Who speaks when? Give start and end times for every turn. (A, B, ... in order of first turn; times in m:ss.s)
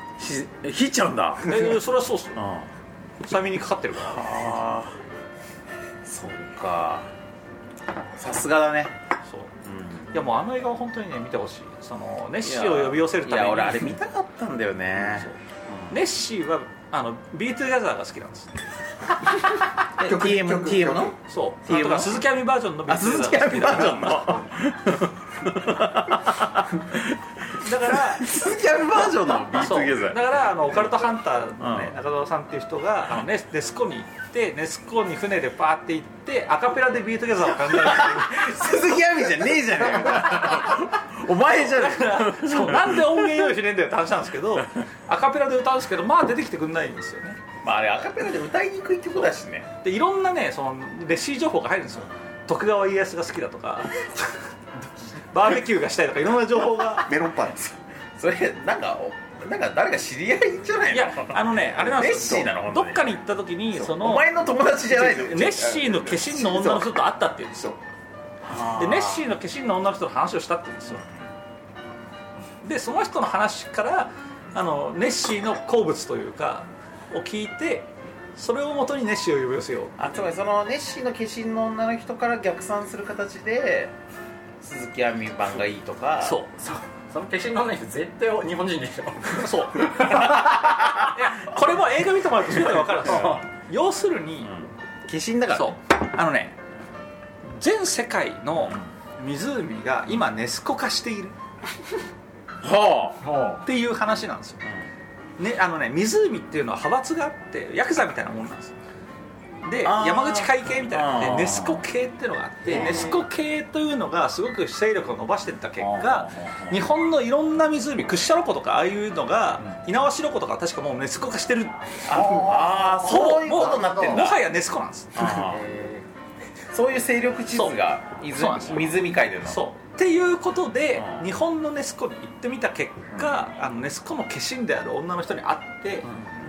0:00.2-0:01.8 A
0:01.4-0:02.4 B
0:02.4-0:02.7 A
0:03.2-0:04.4 B
0:04.1-0:05.0 A
0:06.0-0:07.1 A
0:08.2-0:09.0 A
0:09.3-0:09.5 B
0:09.6-0:10.2 A
0:10.1-0:14.0 B
0:12.4-0:15.3 A
0:15.0-0:15.4 B
0:15.9-0:18.5 B
0:20.0-0:22.2 A
0:20.0-0:21.2 C
0:21.3-0:24.4 B
0:22.9-0:27.1 A
0:27.6-0:28.4 B
0:28.1-0:30.4 A
0:29.5-0:38.9 B
0:31.6-0:31.9 A
0:37.7-0:43.4 A
0:40.0-0:47.4 B
0:47.6-0:49.7 A
0:49.8-0:54.1 B
0:55.3-0:57.1 B
0:57.0-0:57.7 C
0:58.2-1:03.1 A
1:00.9-1:04.3 B
1:03.8-1:05.4 A
1:04.7-1:06.9 C
1:05.1-1:07.7 B
1:08.4-1:09.2 A
1:08.7-1:11.0 B
1:12.6-1:20.0 B
1:20.0-1:23.9 A
1:24.6-1:26.4 A
1:26.2-1:26.5 B
1:26.6-1:30.8 D
1:29.3-1:34.5 B
1:33.0-1:33.4 D
1:34.4-1:35.8 A
1:35.5-1:36.6 B
1:37.4-1:41.4 B
1:42.6-1:43.2 A
1:43.2-1:43.6 D
1:43.6-1:44.6 B
1:45.4-1:48.7 B
1:49.6-2:02.3 B
1:49.8-1:51.8 A
1:52.7-1:53.2 A
1:52.7-1:53.0 D
1:55.8-1:56.4 A
2:02.1-2:04.4 A
2:02.2-2:02.5 D
2:03.0-2:05.4 B
2:05.2-2:05.6 A
2:05.3-2:06.1 D
2:06.7-2:09.6 A
2:07.5-2:16.1 B
2:11.0-2:11.2 A